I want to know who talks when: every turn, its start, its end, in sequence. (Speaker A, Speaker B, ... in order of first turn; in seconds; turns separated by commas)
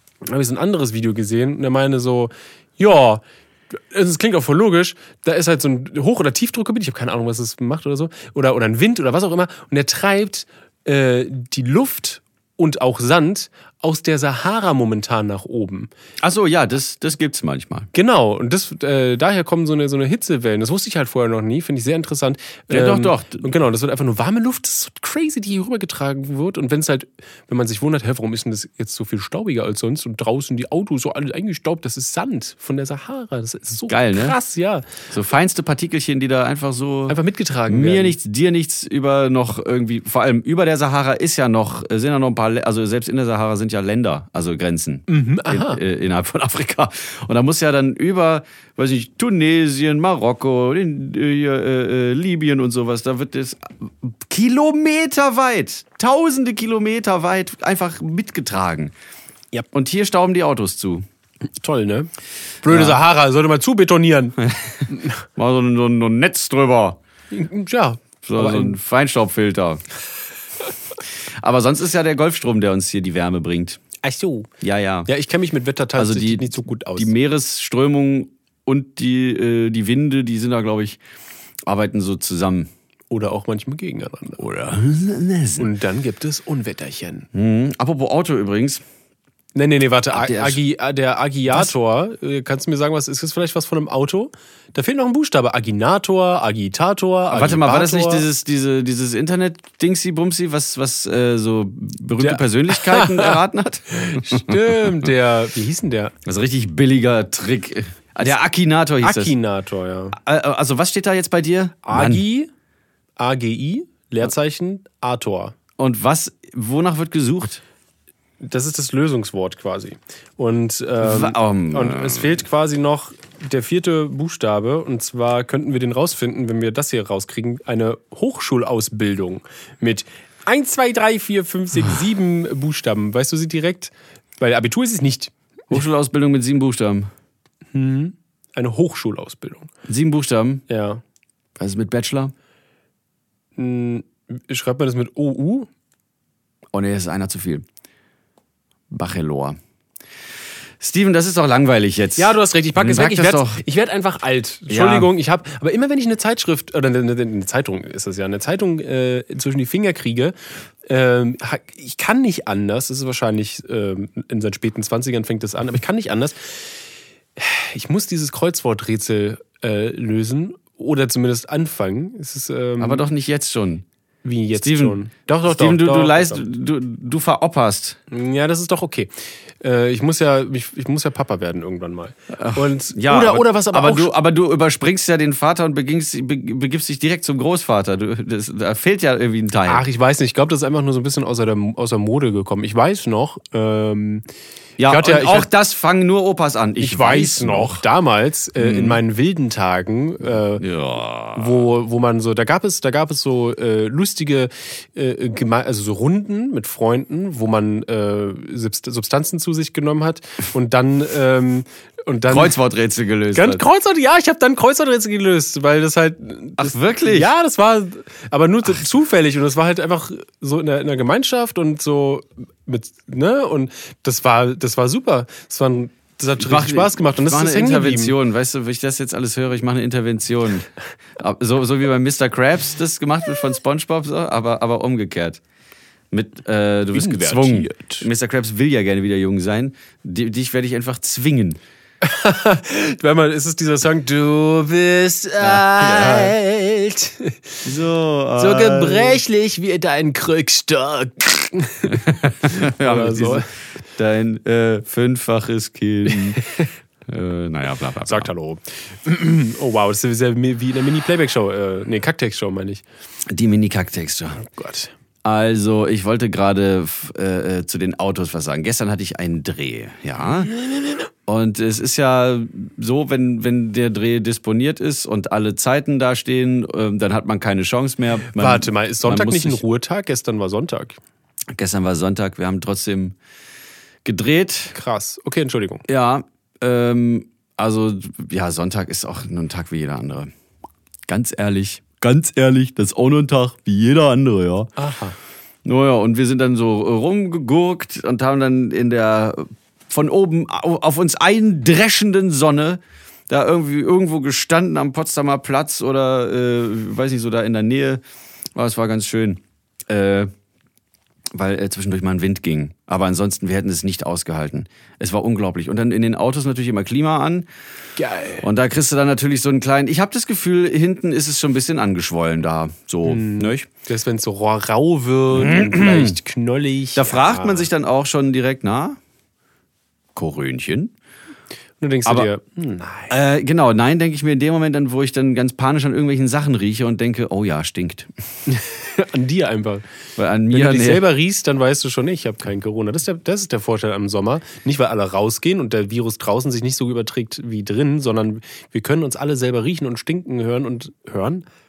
Speaker A: 0.3-15.9, Speaker B: 16.2-17.9, Speaker A: 17.9-35.0, Speaker B: 22.7-23.4, Speaker B: 33.9-34.4, Speaker B: 35.1-37.2, Speaker A: 37.1-38.2, Speaker B: 37.7-58.9, Speaker A: 45.1-45.8, Speaker B: 59.7-61.0, Speaker A: 61.6-62.1, Speaker A: 62.6-64.4, Speaker B: 62.7-63.0, Speaker B: 64.4-67.0, Speaker A: 67.3-68.8, Speaker B: 68.2-69.8, Speaker B: 71.4-73.8, Speaker A: 74.0-74.5, Speaker B: 74.6-75.1, Speaker A: 75.1-77.1, Speaker B: 76.0-81.0, Speaker B: 81.7-82.7, Speaker A: 83.1-84.5, Speaker B: 84.4-85.7, Speaker A: 85.6-87.3, Speaker B: 87.3-88.8, Speaker A: 89.5-98.2, Speaker B: 90.1-90.6, Speaker B: 97.3-105.0, Speaker A: 102.2-103.4, Speaker A: 103.9-106.1, Speaker B: 106.2-109.3, Speaker A: 109.0-110.2, Speaker B: 110.1-112.2, Speaker A: 111.8-112.5, Speaker A: 113.2-115.5, Speaker B: 115.8-117.6, Speaker A: 118.4-135.8, Speaker B: 121.0-122.3, Speaker B: 135.7-137.1, Speaker A: 137.7-139.7, Speaker B: 139.9-140.6, Speaker A: 140.7-141.0, Speaker B: 141.6-142.3, Speaker A: 143.6-145.7, Speaker B: 146.7-147.6, Speaker B: 148.9-149.6, Speaker B: 150.8-153.6, Speaker A: 152.2-160.3, Speaker B: 154.7-155.1, Speaker A: 160.9-166.8, Speaker A: 167.4-173.1, Speaker B: 172.8-173.8, Speaker A: 174.2-176.4, Speaker B: 174.6-178.0, Speaker A: 178.1-179.1, Speaker A: 179.6-184.1, Speaker B: 182.3-189.8, Speaker A: 189.7-194.2, Speaker B: 194.8-197.8, Speaker A: 194.9-195.5, Speaker A: 196.8-200.7, Speaker B: 198.6-199.0, Speaker B: 200.6-201.7, Speaker A: 201.3-212.6, Speaker B: 212.3-213.6, Speaker A: 213.3-228.2, Speaker B: 216.6-217.3, Speaker B: 226.4-235.4, Speaker B: 236.1-241.6, Speaker A: 236.9-238.1, Speaker A: 242.0-247.7, Speaker B: 245.4-246.3, Speaker B: 247.6-249.2, Speaker A: 248.4-253.5, Speaker B: 251.9-256.4, Speaker A: 256.1-256.7, Speaker B: 257.1-258.3, Speaker A: 258.1-262.8, Speaker B: 263.3-264.4, Speaker A: 264.4-264.9, Speaker B: 265.2-270.5, Speaker B: 271.3-279.6, Speaker A: 278.3-281.0, Speaker B: 281.5-283.2, Speaker B: 284.1-284.7, Speaker A: 284.7-285.8, Speaker B: 285.9-290.3, Speaker B: 291.1-294.7, Speaker A: 294.8-295.2, Speaker B: 295.6-308.0, Speaker B: 308.6-310.3, Speaker B: 311.3-317.5, Speaker A: 318.0-318.5, Speaker B: 318.4-323.7, Speaker A: 323.1-327.7, Speaker B: 325.3-326.2, Speaker B: 327.0-329.0, Speaker B: 330.1-330.9, Speaker A: 331.8-333.2, Speaker B: 333.1-338.1, Speaker A: 338.5-339.8, Speaker B: 340.2-341.1, Speaker A: 340.5-351.4